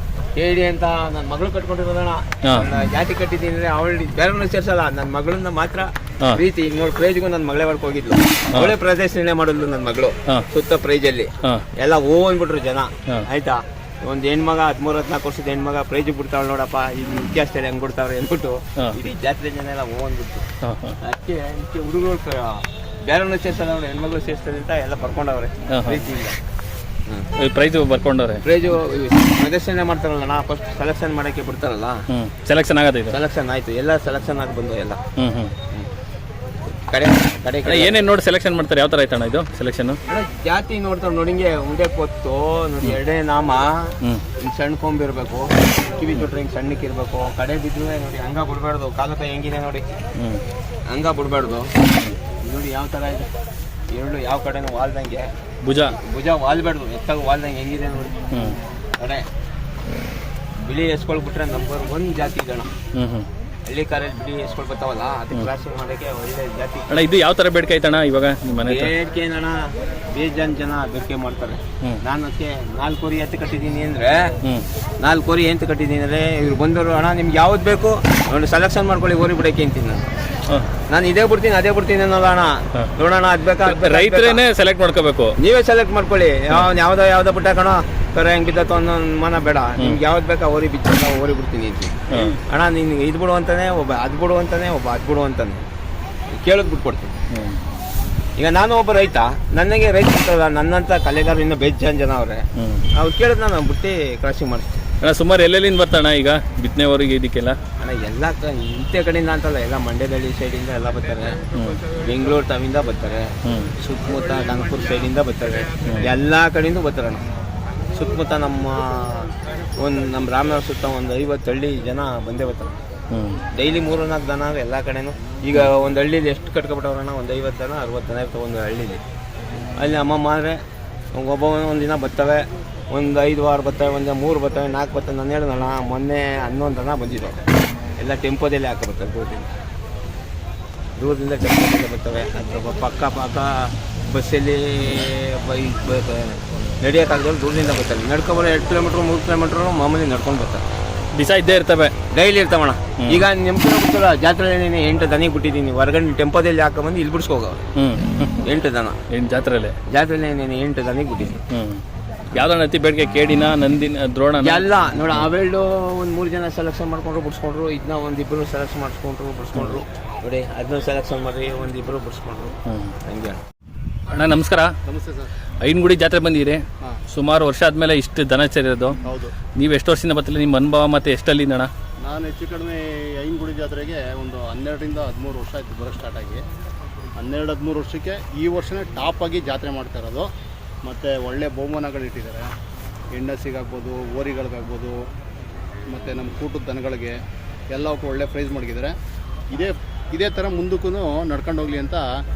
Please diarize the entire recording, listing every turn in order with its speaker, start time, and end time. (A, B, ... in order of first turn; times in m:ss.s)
0:00.3-0:20.4 A
0:02.4-0:02.7 B
0:20.6-0:21.0 B
0:21.0-0:26.4 A
0:25.7-0:26.0 B
0:27.4-0:28.4 B
0:28.4-0:32.0 A
0:32.1-0:33.2 B
0:33.1-0:35.0 A
0:35.2-0:35.5 B
0:36.7-0:38.0 A
0:37.6-0:40.0 B
0:40.0-0:50.0 A
0:50.2-0:50.4 B
0:50.8-0:51.8 A
0:52.4-0:53.3 A
0:53.9-0:55.3 A
0:55.6-0:56.0 B
0:55.8-0:58.3 A
0:58.3-0:58.6 B
0:59.0-0:59.3 A
1:00.6-1:02.7 A
1:02.9-1:03.3 B
1:03.6-1:07.0 A
1:06.9-1:08.9 B
1:08.6-1:14.4 A
1:15.0-1:20.1 A
1:20.9-1:24.4 A
1:23.6-1:25.3 B
1:25.4-1:35.6 A
1:32.1-1:32.4 B
1:36.3-1:37.2 A
1:37.3-1:37.6 B
1:38.4-1:44.8 A
1:42.6-1:42.8 B
1:45.0-1:47.6 B
1:47.8-1:57.2 A
1:51.5-1:51.8 B
1:53.4-1:53.7 B
1:57.9-2:02.8 A
2:03.1-2:03.4 B
2:03.5-2:09.0 A
2:09.8-2:10.6 A
2:11.1-2:17.4 A
2:18.0-2:19.5 A
2:21.0-2:30.6 A
2:31.1-2:31.9 B
2:32.1-2:37.6 A
2:37.7-2:38.4 B
2:38.4-2:39.0 A
2:39.1-2:39.8 B
2:39.9-2:41.4 A
2:41.5-2:41.8 B
2:42.3-2:44.6 B
2:44.4-2:53.4 A
2:52.7-2:52.9 B
2:54.1-2:54.7 B
2:54.8-2:55.3 C
2:55.6-2:59.0 B
2:59.0-2:59.3 C
2:59.6-3:01.7 B
3:02.0-3:06.4 C
3:07.2-3:10.3 C
3:10.8-3:12.5 C
3:13.1-3:15.0 C
3:15.9-3:17.2 C
3:17.7-3:18.9 C
3:19.5-3:22.1 C